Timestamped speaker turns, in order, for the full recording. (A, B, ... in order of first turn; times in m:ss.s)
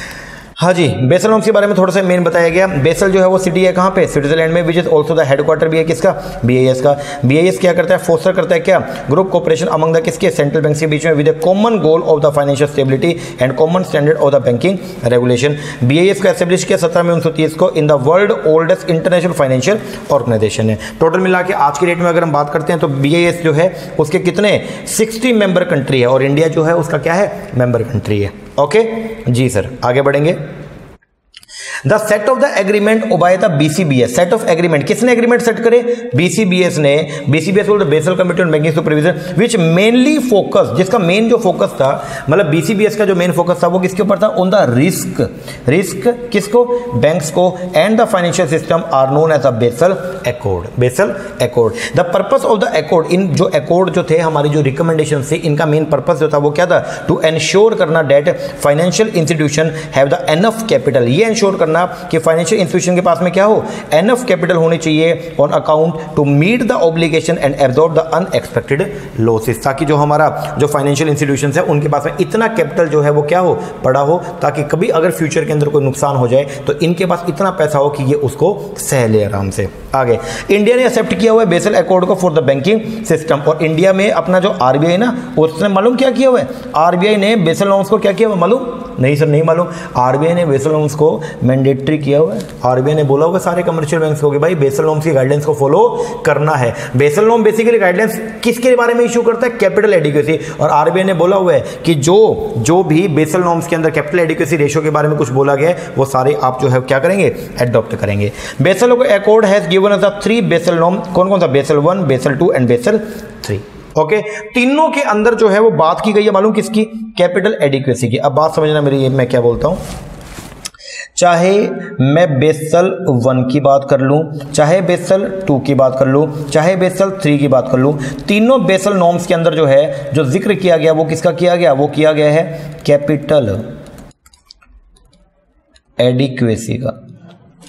0:00.6-0:30.4 A
0:31.8-1:59.8 A
2:01.2-2:13.7 A
2:16.0-2:17.0 A